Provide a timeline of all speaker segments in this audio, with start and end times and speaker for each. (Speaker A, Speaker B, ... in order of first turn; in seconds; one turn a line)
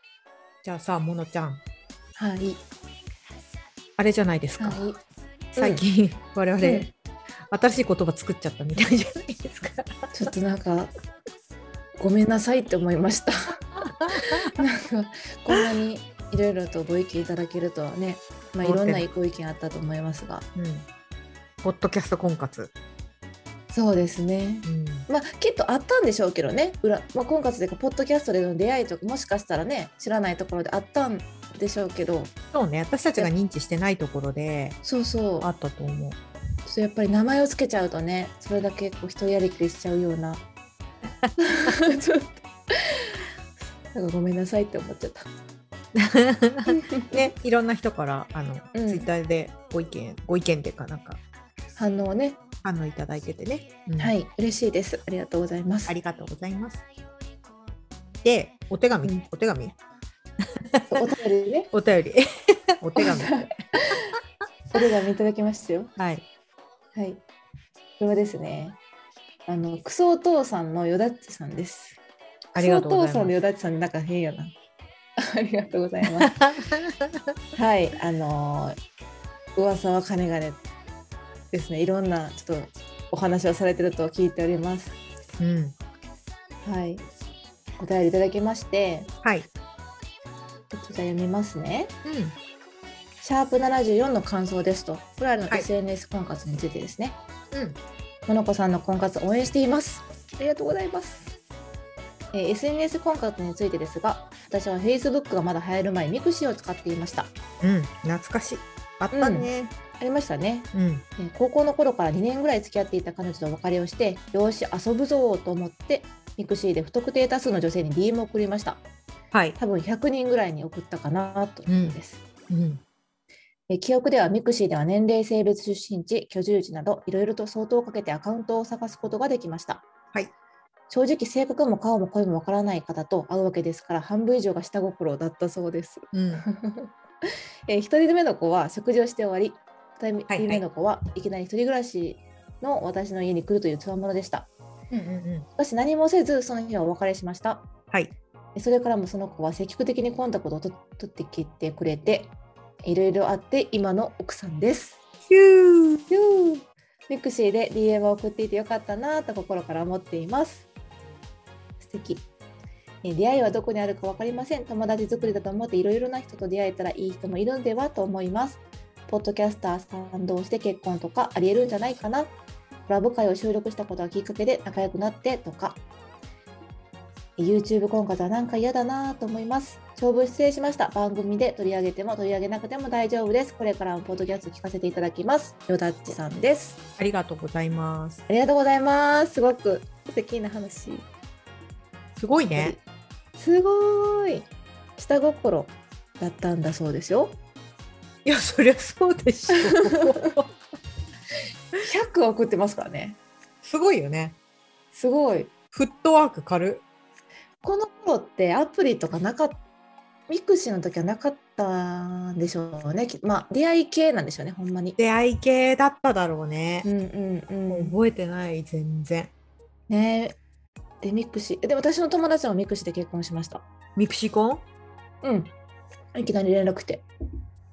Speaker A: 0.6-1.6
Speaker B: 2.2-2.6
Speaker A: 4.0-4.8
Speaker B: 4.6-5.0
Speaker B: 5.5-5.8
Speaker A: 5.6-6.9
Speaker B: 6.6-6.9
Speaker A: 7.5-10.3
Speaker B: 10.1-10.9
Speaker B: 12.0-20.5
Speaker A: 13.8-14.5
Speaker A: 18.6-19.0
Speaker A: 20.5-20.9
Speaker A: 21.6-22.7
Speaker B: 23.7-32.3
Speaker A: 24.6-25.1
Speaker A: 32.5-34.8
Speaker B: 34.8-35.5
Speaker A: 35.4-36.2
Speaker B: 36.7-40.4
Speaker B: 41.4-43.2
Speaker B: 43.9-45.3
Speaker A: 45.9-51.2
Speaker B: 46.6-47.2
Speaker B: 48.7-49.1
Speaker B: 51.8-52.4
Speaker A: 52.6-54.1
Speaker B: 54.0-56.0
Speaker A: 55.9-56.8
Speaker A: 58.2-59.7
Speaker A: 60.7-61.0
Speaker B: 60.9-61.7
Speaker A: 61.7-62.2
Speaker A: 62.8-63.5
Speaker B: 63.0-64.1
Speaker B: 64.7-65.9
Speaker A: 66.0-66.2
Speaker B: 66.9-67.2
Speaker B: 68.0-68.8
Speaker B: 69.5-72.0
Speaker A: 72.5-73.3
Speaker B: 72.5-74.5
Speaker B: 75.2-76.3
Speaker A: 76.0-77.3
Speaker B: 77.5-78.8
Speaker B: 79.5-80.6
Speaker B: 81.5-85.0
Speaker A: 85.4-85.7
Speaker B: 86.6-87.0
Speaker B: 87.8-89.1
Speaker A: 89.2-89.5
Speaker B: 90.7-91.9
Speaker A: 92.0-92.3
Speaker B: 93.2-97.2
Speaker A: 97.5-97.8
Speaker B: 98.3-101.3
Speaker B: 102.3-107.3
Speaker A: 107.6-109.7
Speaker B: 109.1-118.8
Speaker A: 110.7-111.0
Speaker A: 119.3-119.6
Speaker B: 119.6-122.2
Speaker A: 121.7-122.8
Speaker B: 123.7-129.8
Speaker B: 130.9-136.9
Speaker A: 136.1-136.4
Speaker B: 137.7-144.5
Speaker A: 140.3-140.6
Speaker A: 144.9-145.5
Speaker B: 145.6-147.7
Speaker B: 148.5-155.0
Speaker A: 155.3-156.1
Speaker B: 156.1-160.7
Speaker B: 161.8-162.2
Speaker B: 163.0-172.3
Speaker B: 172.9-175.8
Speaker B: 177.4-186.8
Speaker A: 187.0-188.2
Speaker B: 188.3-191.1
Speaker A: 192.2-192.8
Speaker B: 192.5-192.8
Speaker B: 193.3-197.4
Speaker A: 198.2-200.5
Speaker B: 199.6-200.3
Speaker B: 201.8-203.2
Speaker A: 203.6-204.3
Speaker B: 204.9-205.5
Speaker A: 205.7-206.8
Speaker B: 207.6-209.6
Speaker B: 210.3-215.0
Speaker A: 215.0-216.9
Speaker B: 216.8-217.9
Speaker A: 217.7-219.3
Speaker B: 219.9-220.3
Speaker B: 221.0-223.6
Speaker A: 223.9-224.6
Speaker B: 225.2-225.5
Speaker B: 226.1-227.1